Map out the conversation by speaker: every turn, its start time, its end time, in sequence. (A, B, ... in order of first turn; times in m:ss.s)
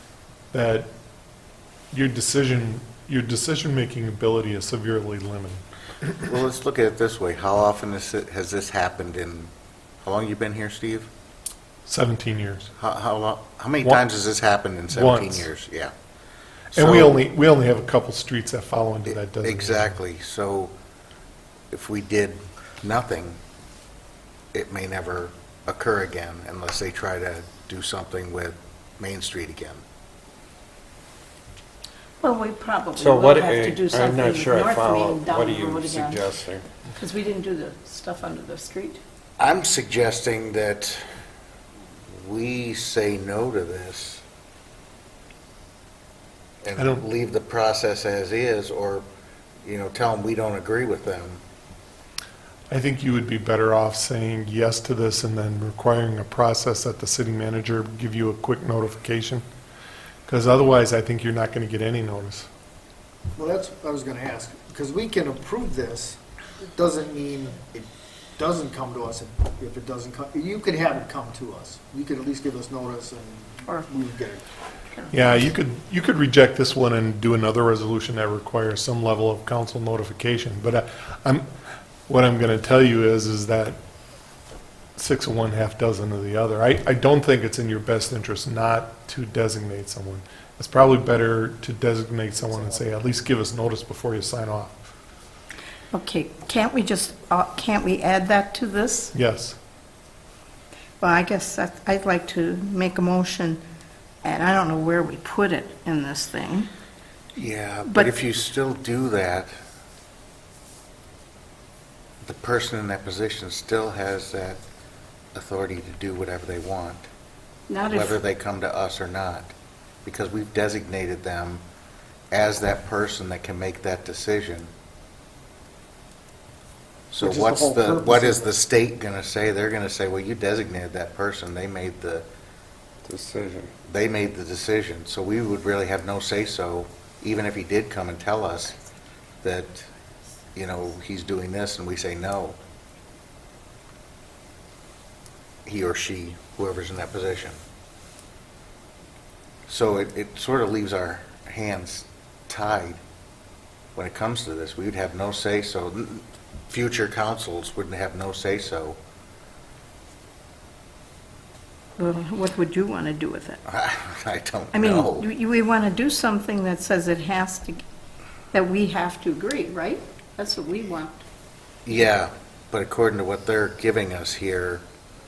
0:00.5-0:00.9 A
0:01.9-0:05.6 A
0:06.2-0:09.5 B
0:10.0-0:11.1 B
0:11.9-0:12.7 A
0:12.8-0:15.9 B
0:14.9-0:15.5 A
0:16.7-0:17.2 B
0:16.7-0:20.0 A
0:19.0-0:20.7 B
0:21.7-0:23.4 B
0:24.5-0:29.8 B
0:32.2-0:36.3 C
0:32.9-0:36.7 D
0:36.9-0:39.0 C
0:39.4-0:41.2 B
0:42.1-0:44.2 B
0:46.6-0:49.0 B
0:46.8-0:47.0 A
0:49.6-0:51.4 B
0:52.7-0:59.4 A
1:00.3-1:02.5 A
1:03.4-1:14.4 E
1:15.1-1:21.5 A
1:22.1-1:23.8 A
1:25.0-1:34.9 A
1:35.9-1:39.1 C
1:39.1-1:39.6 A
1:41.0-1:43.6 C
1:44.2-1:46.7 C
1:47.3-1:49.5 B
1:52.2-1:54.6 B
1:55.3-1:57.1 B
1:57.7-1:58.2 C
1:57.9-1:59.5 B
2:00.0-2:01.6 B
2:02.3-2:04.7 B
2:07.1-2:12.2 B
2:07.2-2:08.5 E
2:13.0-2:13.7 D
2:13.8-2:18.8 B
2:19.4-2:19.9 B
2:20.5-2:22.6 B
2:25.6-2:27.6 B
2:29.7-2:33.0 B
2:33.9-2:39.0 B
2:42.0-2:43.6 C
2:43.6-2:45.3 B
2:44.7-2:47.8 C
2:48.5-2:51.2 C
2:51.8-2:54.8 B